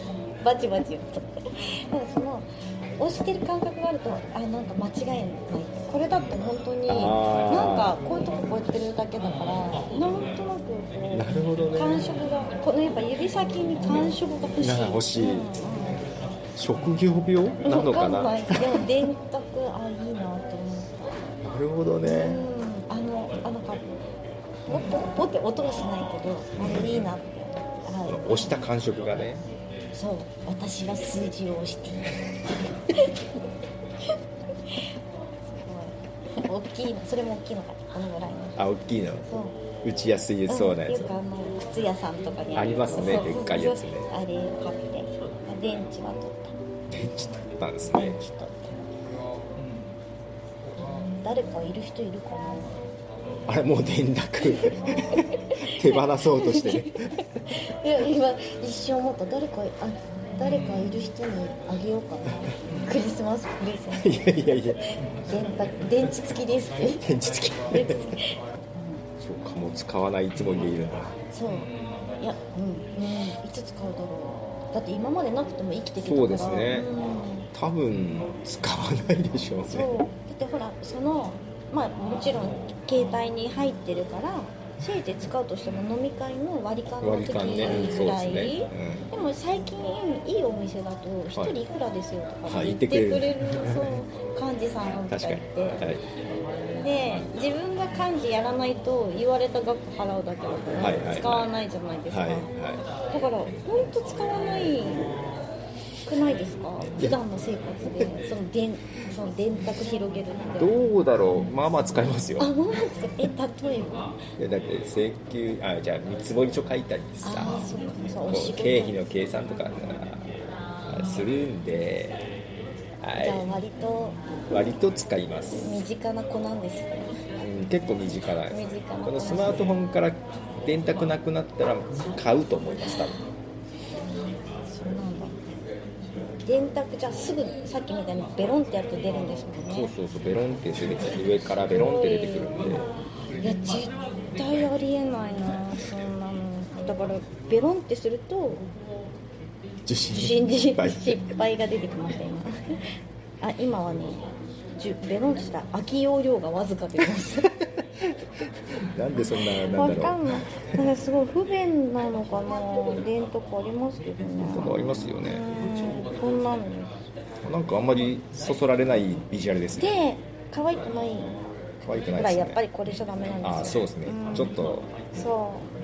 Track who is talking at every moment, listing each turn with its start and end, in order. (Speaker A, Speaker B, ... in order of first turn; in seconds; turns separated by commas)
Speaker A: 0.4-1.2, Speaker A: 1.9-16.0, Speaker B: 6.9-8.0, Speaker B: 11.1-12.1, Speaker B: 14.6-15.5, Speaker B: 16.6-18.9, Speaker A: 17.6-21.0, Speaker B: 21.4-22.4, Speaker A: 22.0-23.8, Speaker A: 24.7-28.6, Speaker B: 26.5-27.1, Speaker B: 28.1-29.4, Speaker A: 29.9-32.2, Speaker A: 35.5-38.5, Speaker B: 38.6-39.3, Speaker A: 39.3-39.6, Speaker B: 39.8-41.1, Speaker A: 40.5-46.5, Speaker B: 42.5-44.1, Speaker B: 46.9-48.2, Speaker A: 47.9-48.9, Speaker A: 50.9-52.8, Speaker B: 53.5-57.2, Speaker A: 54.6-67.0, Speaker B: 64.0-64.8, Speaker B: 67.0-68.1, Speaker A: 67.7-69.0, Speaker B: 69.2-71.2, Speaker A: 71.3-77.5, Speaker B: 76.0-76.9, Speaker B: 77.5-80.0, Speaker A: 79.7-95.8, Speaker B: 87.0-89.1, Speaker B: 92.5-93.5, Speaker B: 95.1-96.0, Speaker A: 96.7-102.5, Speaker B: 100.8-101.5, Speaker B: 102.1-102.8, Speaker A: 103.1-105.1, Speaker A: 106.0-110.8, Speaker B: 110.6-112.5, Speaker A: 112.4-114.2, Speaker B: 114.4-117.6, Speaker A: 117.2-119.1, Speaker B: 118.3-120.3, Speaker B: 120.9-122.2, Speaker B: 123.0-123.5, Speaker A: 123.2-124.2, Speaker B: 124.5-125.8, Speaker A: 125.6-127.2, Speaker B: 127.4-133.2, Speaker A: 128.5-129.7, Speaker A: 132.9-133.2, Speaker A: 134.7-135.4, Speaker A: 136.4-139.9, Speaker B: 139.7-142.8, Speaker A: 141.8-142.7, Speaker A: 143.4-148.7, Speaker B: 149.9-151.2, Speaker A: 150.1-152.5, Speaker A: 153.4-157.5, Speaker B: 158.9-160.6, Speaker A: 159.2-166.9, Speaker B: 164.4-165.4, Speaker B: 167.4-170.0, Speaker A: 169.8-171.4, Speaker B: 171.8-172.6, Speaker A: 172.1-175.7, Speaker B: 173.4-174.9